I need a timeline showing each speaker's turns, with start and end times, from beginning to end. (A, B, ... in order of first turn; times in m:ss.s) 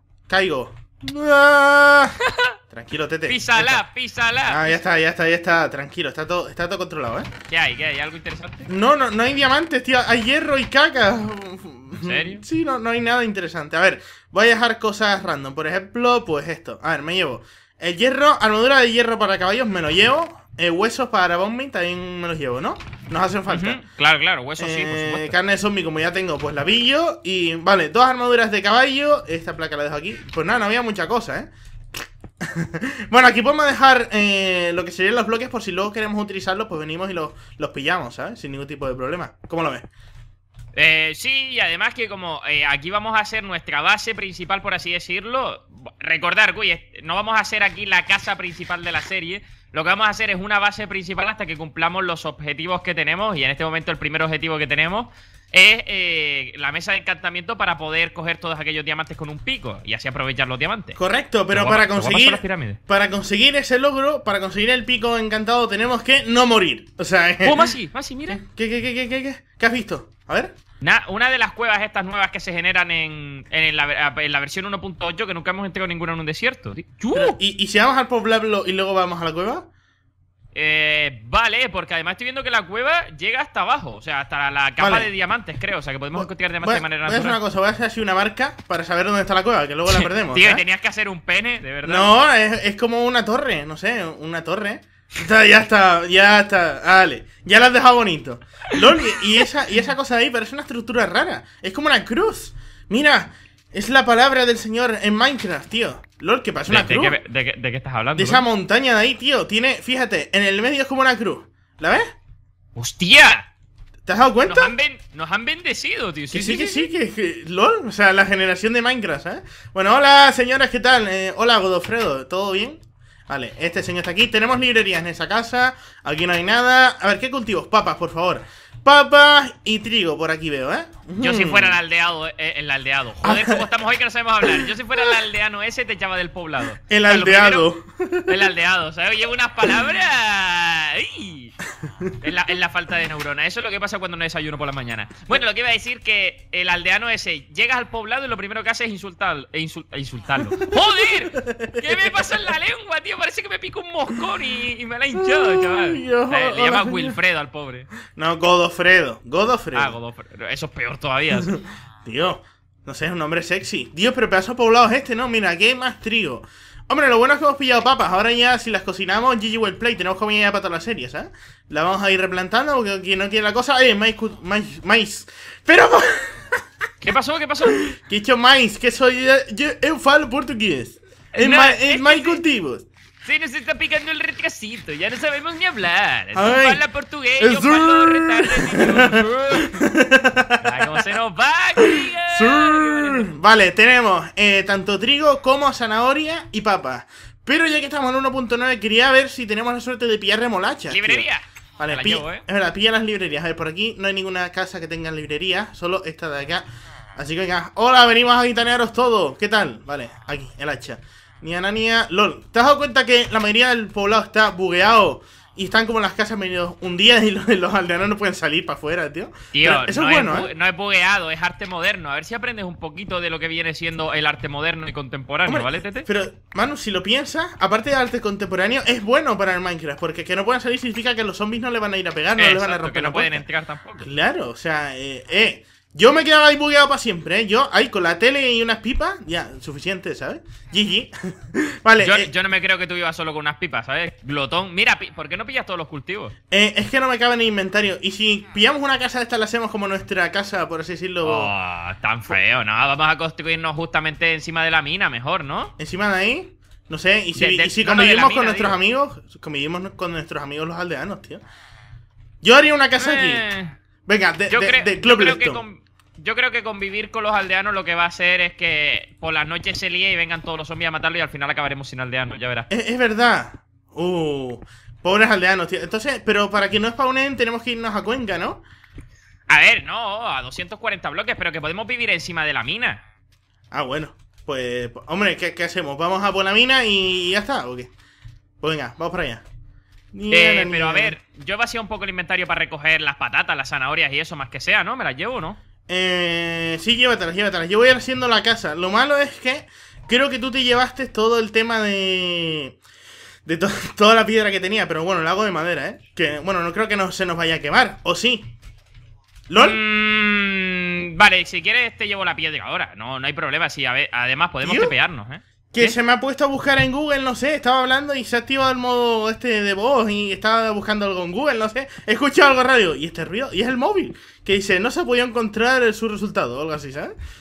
0:00.3-0:02.2 A
0:02.2-0:02.6 B
0:02.7-0:03.8 A
0:03.3-0:04.8 B
0:04.5-0:07.3 A
0:07.5-0:08.7 B
0:08.7-0:23.8 A
0:12.0-0:12.4 B
0:23.5-0:25.4 B
0:24.6-0:39.9 A
0:40.8-1:01.0 B
1:01.0-1:07.7 A
1:01.5-1:02.8 B
1:07.4-1:08.4 B
1:08.3-1:10.6 A
1:10.8-1:17.4 B
1:17.1-1:19.7 A
1:20.6-1:27.4 B
1:24.8-1:25.1 A
1:26.1-1:30.6 A
1:29.9-1:32.1 B
1:31.8-1:47.2 A
1:46.7-1:48.4 B
1:48.2-1:52.0 A
1:52.8-1:53.5 B
1:54.1-1:54.7 A
1:54.5-1:56.9 B
1:56.3-2:11.8 A
2:11.2-2:17.7 B
2:13.2-2:13.6 A
2:14.4-2:15.2 A
2:16.9-2:18.4 A
2:18.3-2:21.5 B
2:22.2-2:37.9 B
2:30.6-2:32.5 A
2:35.2-2:37.2 A
2:38.1-2:40.0 A
2:39.7-2:41.6 B
2:41.3-2:56.6 A
2:57.0-2:57.8 B
2:57.8-3:02.9 A
3:01.3-3:02.4 B
3:03.2-3:09.8 B
3:06.3-3:06.8 A
3:07.4-3:11.0 A
3:10.6-3:13.3 B
3:11.8-3:21.3 A
3:20.9-3:22.4 B
3:21.8-3:26.6 A
3:27.2-3:40.5 A
3:39.5-3:46.1 B
3:45.5-3:53.5 A
3:52.4-3:54.1 B
3:54.0-4:02.3 A
4:02.0-4:06.3 B
4:06.5-4:11.5 A
4:11.2-4:15.7 B
4:15.8-4:21.4 A
4:17.4-4:18.8 B
4:22.4-4:23.4 A
4:23.0-4:23.8 B
4:24.0-4:25.6 A
4:24.5-4:32.7 B
4:32.7-4:38.6 A
4:39.5-4:43.0 B
4:43.7-4:47.9 A
4:48.6-4:49.4 A
4:50.1-4:51.2 A
4:50.3-4:55.6 B
4:55.9-5:02.8 A
5:03.5-5:08.5 A
5:09.5-5:09.8 A
5:09.6-5:16.0 B
5:14.6-5:14.9 A
5:15.7-5:27.1 A